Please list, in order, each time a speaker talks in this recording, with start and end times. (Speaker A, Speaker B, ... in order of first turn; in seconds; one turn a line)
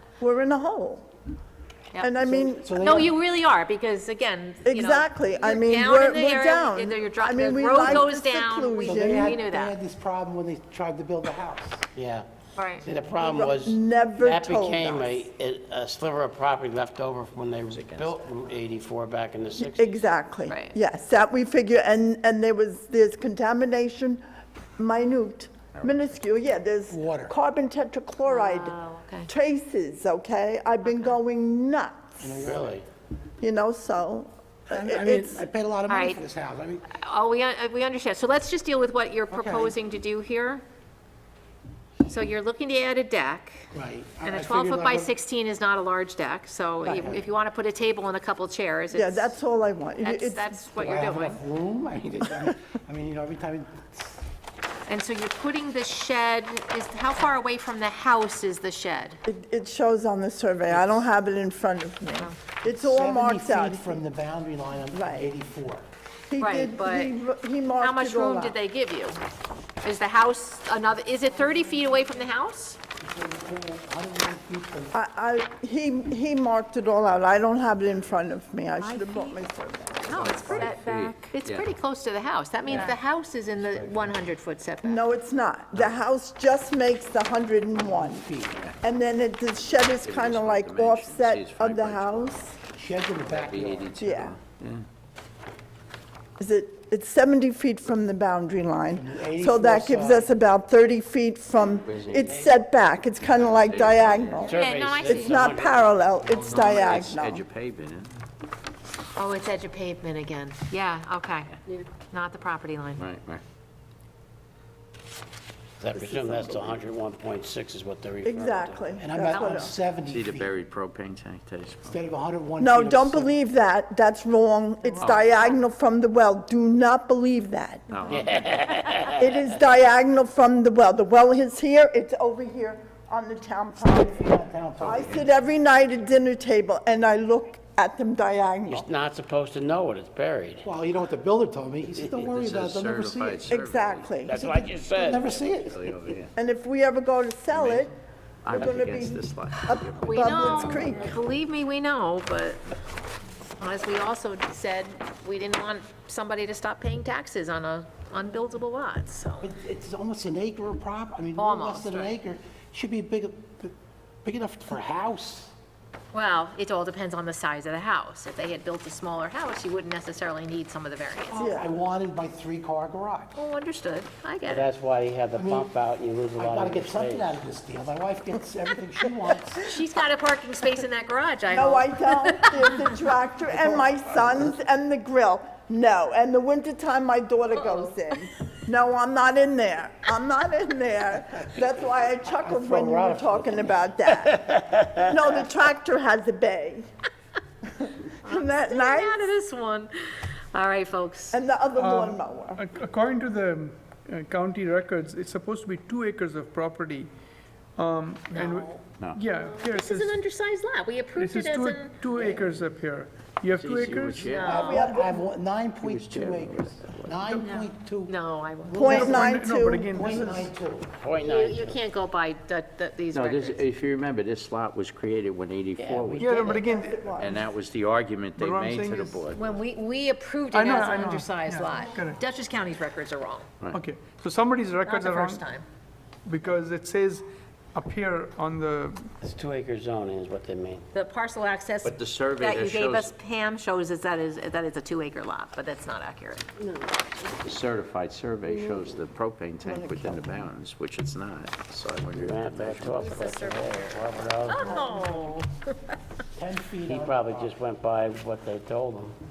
Speaker A: 0.2-1.1
Speaker A: 2.0-3.0
Speaker B: 2.2-3.1
Speaker C: 2.8-9.8
Speaker A: 4.7-9.4
Speaker B: 8.8-11.9
Speaker D: 11.9-12.3
Speaker C: 12.6-12.9
Speaker D: 12.8-20.0
Speaker A: 13.1-15.3
Speaker E: 17.7-18.2
Speaker A: 19.6-24.2
Speaker C: 20.5-20.8
Speaker A: 24.8-28.8
Speaker E: 25.7-26.3
Speaker B: 26.9-27.3
Speaker C: 28.2-29.3
Speaker A: 29.3-32.3
Speaker C: 30.8-31.2
Speaker B: 32.2-32.8
Speaker D: 32.4-32.8
Speaker A: 33.4-35.5
Speaker B: 34.7-36.8
Speaker C: 35.9-36.2
Speaker C: 36.9-40.6
Speaker B: 39.3-39.7
Speaker C: 42.1-43.7
Speaker B: 43.7-45.1
Speaker C: 44.2-49.3
Speaker A: 46.8-47.1
Speaker B: 47.0-47.3
Speaker A: 48.9-50.7
Speaker C: 50.0-51.4
Speaker B: 50.8-54.2
Speaker C: 54.9-59.2
Speaker A: 59.3-64.0
Speaker B: 62.6-65.9
Speaker A: 64.9-65.3
Speaker A: 66.3-68.6
Speaker C: 66.4-67.2
Speaker C: 67.8-69.2
Speaker C: 69.8-72.8
Speaker B: 73.0-74.9
Speaker A: 74.9-80.2
Speaker C: 80.1-85.0
Speaker E: 80.1-81.7
Speaker D: 83.6-84.1
Speaker A: 84.8-88.2
Speaker B: 87.8-88.6
Speaker A: 88.8-92.6
Speaker E: 90.0-92.5
Speaker B: 92.7-94.0
Speaker E: 93.2-94.8
Speaker A: 94.0-94.4
Speaker A: 96.4-107.5
Speaker B: 99.0-100.3
Speaker E: 101.7-102.4
Speaker D: 102.3-102.6
Speaker E: 103.2-104.9
Speaker D: 104.4-105.9
Speaker C: 104.5-105.4
Speaker E: 106.2-108.2
Speaker C: 109.2-113.1
Speaker E: 113.0-113.4
Speaker D: 115.8-118.9
Speaker E: 116.2-116.6
Speaker A: 118.2-119.7
Speaker B: 119.0-120.5
Speaker C: 119.3-119.7
Speaker E: 120.0-122.0
Speaker B: 121.9-123.3
Speaker A: 122.6-128.1
Speaker C: 124.8-125.6
Speaker E: 125.0-125.2
Speaker E: 127.9-128.3
Speaker D: 128.1-129.3
Speaker A: 129.1-134.3
Speaker B: 133.9-135.2
Speaker E: 134.8-135.2
Speaker A: 134.8-138.8
Speaker D: 138.7-140.7
Speaker B: 140.6-143.5
Speaker E: 142.1-144.2
Speaker A: 143.5-144.3
Speaker D: 144.2-145.3
Speaker B: 144.3-146.1
Speaker E: 144.7-146.3
Speaker A: 146.3-147.9
Speaker E: 147.5-147.9
Speaker E: 148.4-151.0
Speaker A: 148.5-151.2
Speaker C: 150.0-152.6
Speaker C: 153.6-159.5
Speaker B: 159.4-163.7
Speaker C: 161.4-162.2
Speaker B: 164.2-165.5
Speaker C: 166.1-171.6
Speaker B: 171.3-173.3
Speaker A: 171.3-171.7
Speaker C: 173.3-174.7
Speaker D: 174.5-177.3
Speaker B: 175.3-175.8
Speaker B: 176.3-179.7
Speaker C: 179.6-182.9
Speaker A: 181.5-194.4
Speaker B: 183.5-184.5
Speaker C: 187.5-188.0
Speaker B: 192.4-193.9
Speaker D: 194.2-195.1
Speaker A: 195.0-196.8
Speaker A: 197.8-199.3
Speaker C: 198.2-201.4
Speaker A: 201.3-202.6
Speaker F: 201.8-207.1
Speaker F: 207.8-210.2
Speaker C: 208.3-208.8
Speaker C: 209.3-211.9
Speaker F: 211.2-214.8
Speaker E: 213.5-214.8
Speaker C: 214.3-214.8
Speaker B: 214.3-221.0
Speaker A: 214.4-215.3
Speaker E: 215.8-217.4
Speaker C: 218.0-219.3
Speaker A: 218.8-220.0
Speaker F: 218.8-220.5
Speaker D: 221.0-221.8
Speaker C: 221.1-223.6
Speaker E: 223.1-226.5
Speaker D: 225.8-226.7
Speaker F: 226.2-227.1
Speaker A: 226.5-227.5
Speaker E: 227.2-229.6
Speaker F: 228.3-229.2
Speaker C: 229.3-233.5
Speaker F: 230.5-232.2
Speaker F: 233.7-235.4
Speaker C: 234.8-235.7
Speaker F: 236.2-239.1
Speaker D: 239.2-240.8
Speaker C: 240.9-246.5
Speaker E: 241.8-243.1
Speaker E: 247.4-253.2
Speaker B: 249.6-250.5
Speaker D: 252.1-254.8
Speaker C: 252.9-255.9
Speaker B: 254.7-255.4
Speaker B: 256.4-257.6
Speaker D: 256.8-259.2